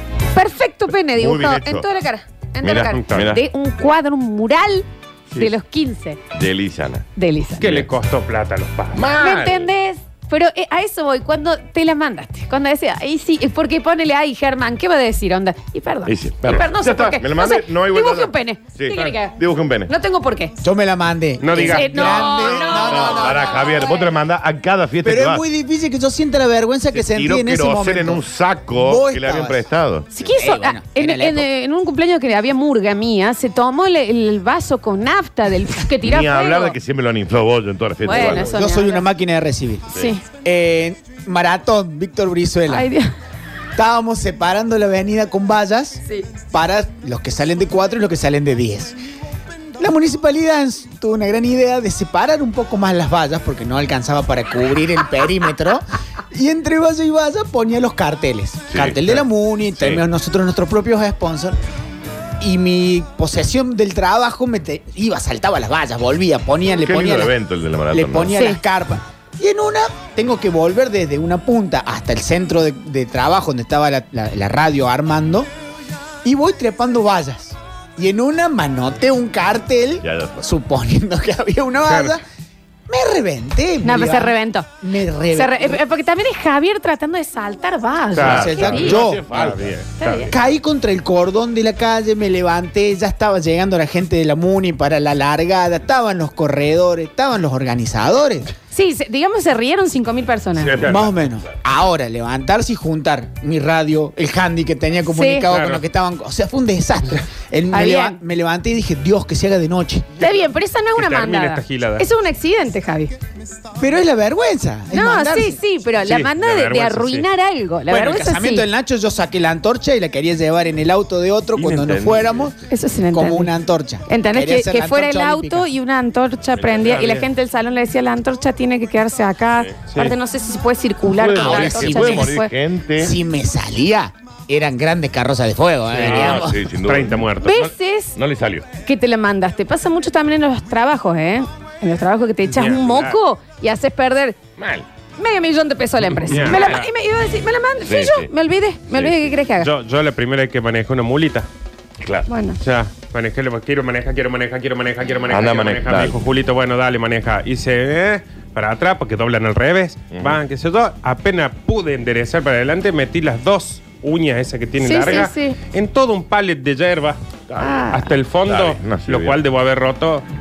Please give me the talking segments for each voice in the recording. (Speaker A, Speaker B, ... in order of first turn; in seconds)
Speaker A: 0.3-6.2, 7.2-7.7, 9.2-19.4, 19.9-20.6, 21.7-24.1, 30.1-36.8, 38.0-39.1, 39.9-40.2, 42.7-43.1, 68.3-68.6, 83.8-84.7, 85.3-89.0, 90.0-90.3, 98.7-100.8, 105.1-105.5, 107.7-108.2, 110.2-113.2, 114.9-118.7, 122.7-123.5, 124.1-132.5, 137.4-138.2, 138.8-144.4, 145.2-149.7, 152.3-152.6, 164.8-165.6, 167.6-168.0
Speaker B: 1.1-1.9, 2.6-3.4, 6.3-7.1, 7.6-7.9, 8.9-9.7, 16.1-19.9, 22.8-25.4, 26.9-30.1, 36.0-38.5, 58.7-60.0, 66.8-68.3, 80.0-80.5, 88.2-89.7, 100.6-101.4, 121.6-122.5, 131.1-133.2, 135.9-138.7, 144.6-144.9, 146.3-146.8, 147.8-148.3, 148.9-149.3, 152.0-152.3, 155.3-156.2, 160.1-160.4, 167.5-169.4
Speaker C: 2.9-3.3, 7.6-9.4, 21.4-22.7, 81.8-82.2, 88.1-90.3, 105.5-105.8, 111.0-112.0, 116.0-117.3, 126.6-127.3, 129.9-130.2, 131.5-131.9, 136.0-137.6, 142.5-143.2, 146.2-146.9, 149.6-151.5, 152.6-167.2, 167.9-170.2
Speaker D: 20.6-23.6, 25.0-29.6, 30.2-31.5, 38.4-39.9, 40.4-42.9, 43.8-49.0, 49.8-61.6, 62.4-67.3, 67.9-75.5, 76.2-82.2, 82.9-85.8, 88.2-89.5, 90.3-98.5, 100.9-110.2, 113.8-115.6, 117.9-122.5, 123.1-125.7, 131.5-132.1, 133.0-136.6